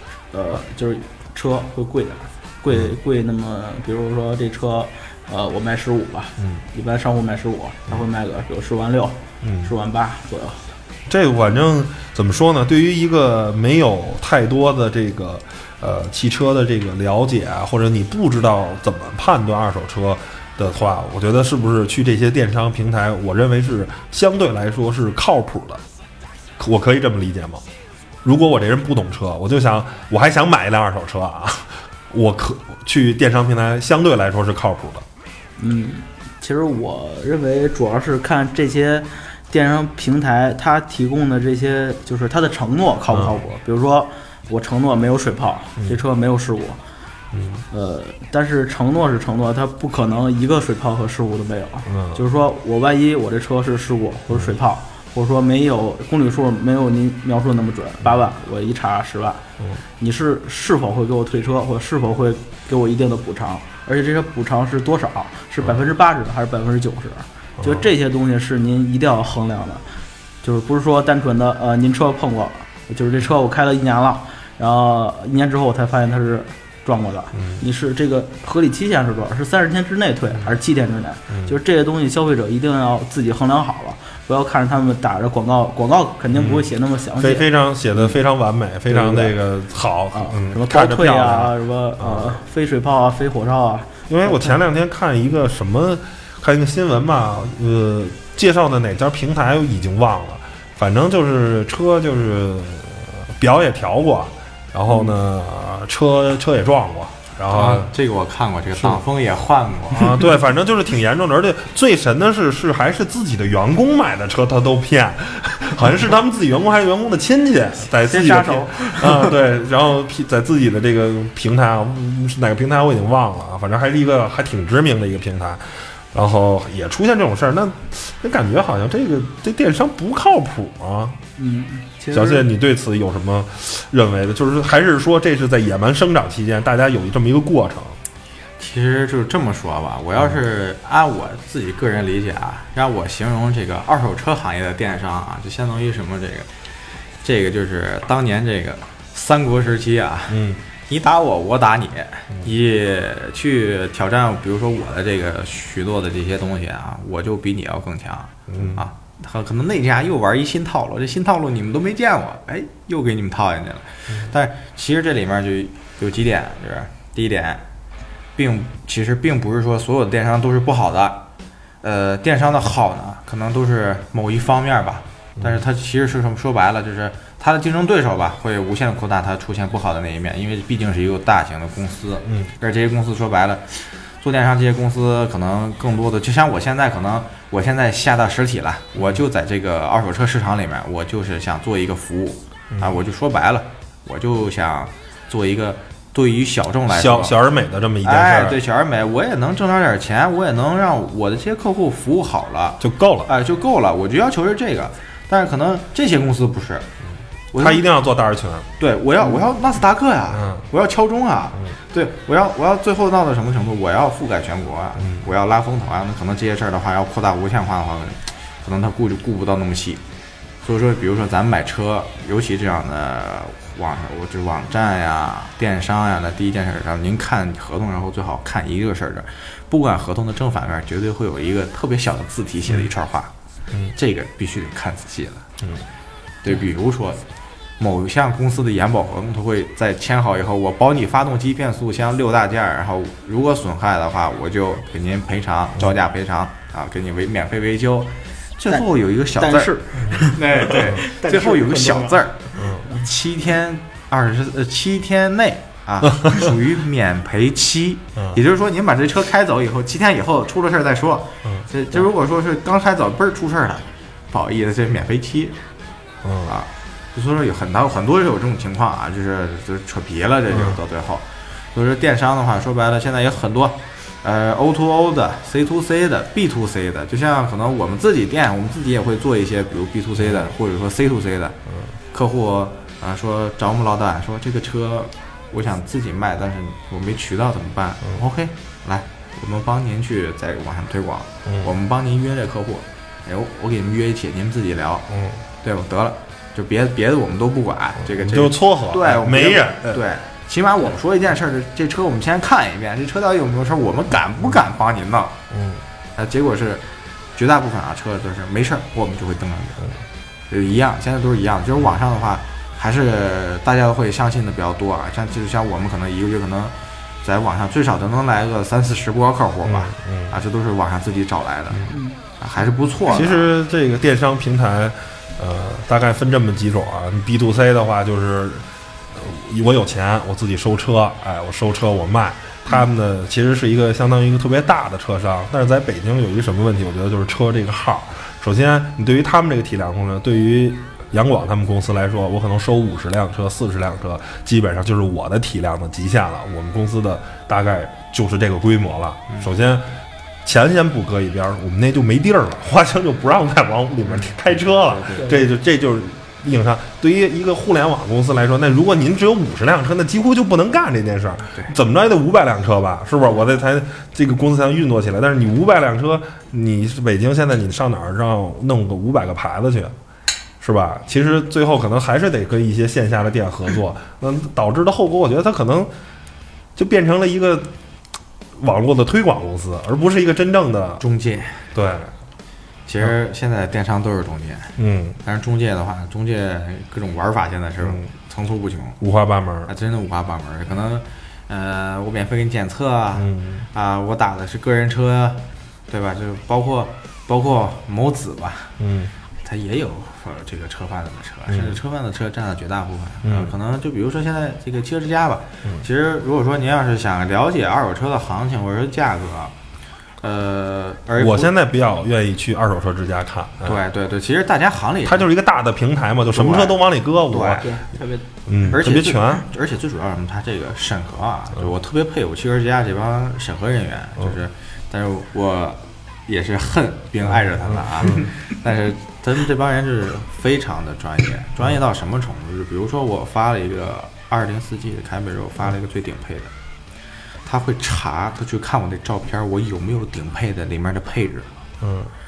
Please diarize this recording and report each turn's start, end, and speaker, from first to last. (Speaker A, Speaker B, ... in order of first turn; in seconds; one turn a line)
Speaker A: 0.3-10.7
Speaker B: 9.4-9.7
Speaker B: 11.1-25.8
Speaker B: 26.6-27.6
Speaker B: 28.2-35.0
Speaker A: 35.6-46.8
Speaker B: 43.1-43.4
Speaker B: 47.3-47.6
Speaker A: 47.7-59.5
Speaker B: 51.9-52.2
Speaker B: 54.3-54.5
Speaker A: 60.0-69.8
Speaker B: 67.6-67.9
Speaker A: 70.4-88.2
Speaker B: 81.3-81.6
Speaker B: 86.3-92.4
Speaker A: 88.9-89.3
Speaker A: 90.1-94.6
Speaker B: 94.1-107.9
Speaker A: 104.9-105.2
Speaker C: 107.5-110.3
Speaker B: 108.8-109.0
Speaker B: 109.9-131.2
Speaker A: 118.1-119.2
Speaker C: 118.2-118.8
Speaker A: 131.4-132.5
Speaker B: 132.1-138.0
Speaker C: 138.6-146.5
Speaker C: 147.2-167.6
Speaker B: 150.3-150.6
Speaker B: 158.5-158.8
Speaker C: 168.4-171.2
Speaker C: 171.8-197.4
Speaker B: 196.9-198.6
Speaker C: 198.0-206.9
Speaker B: 202.8-203.3
Speaker C: 207.5-207.8
Speaker B: 207.6-208.7
Speaker C: 208.8-220.0
Speaker B: 210.3-210.7
Speaker B: 215.0-215.2
Speaker C: 220.6-233.3
Speaker C: 233.9-235.5
Speaker C: 236.4-237.2
Speaker C: 237.8-265.6
Speaker A: 249.4-253.0
Speaker B: 252.6-252.9
Speaker B: 266.2-266.5
Speaker C: 266.4-281.6
Speaker B: 270.5-270.8
Speaker C: 282.1-295.1
Speaker B: 295.1-295.4
Speaker C: 295.6-305.4
Speaker B: 298.1-300.0
Speaker B: 305.5-305.8
Speaker C: 306.2-309.9
Speaker C: 310.5-323.5
Speaker B: 319.6-320.3
Speaker A: 321.9-322.2
Speaker B: 323.1-369.9
Speaker C: 354.1-355.3
Speaker B: 370.6-375.9
Speaker B: 376.8-377.7
Speaker B: 378.6-381.0
Speaker C: 381.0-381.6
Speaker B: 381.7-382.1
Speaker C: 382.9-389.0
Speaker B: 384.8-385.2
Speaker B: 389.0-389.7
Speaker C: 389.7-398.8
Speaker B: 393.2-393.7
Speaker B: 398.8-399.1
Speaker C: 399.4-409.5
Speaker B: 401.5-401.8
Speaker B: 403.2-403.5
Speaker C: 410.2-411.5
Speaker B: 411.2-413.8
Speaker C: 413.6-415.3
Speaker B: 415.1-417.7
Speaker C: 416.3-417.7
Speaker A: 417.6-418.3
Speaker B: 418.5-419.4
Speaker C: 418.7-436.5
Speaker B: 427.6-428.3
Speaker C: 437.4-441.5
Speaker B: 441.8-442.1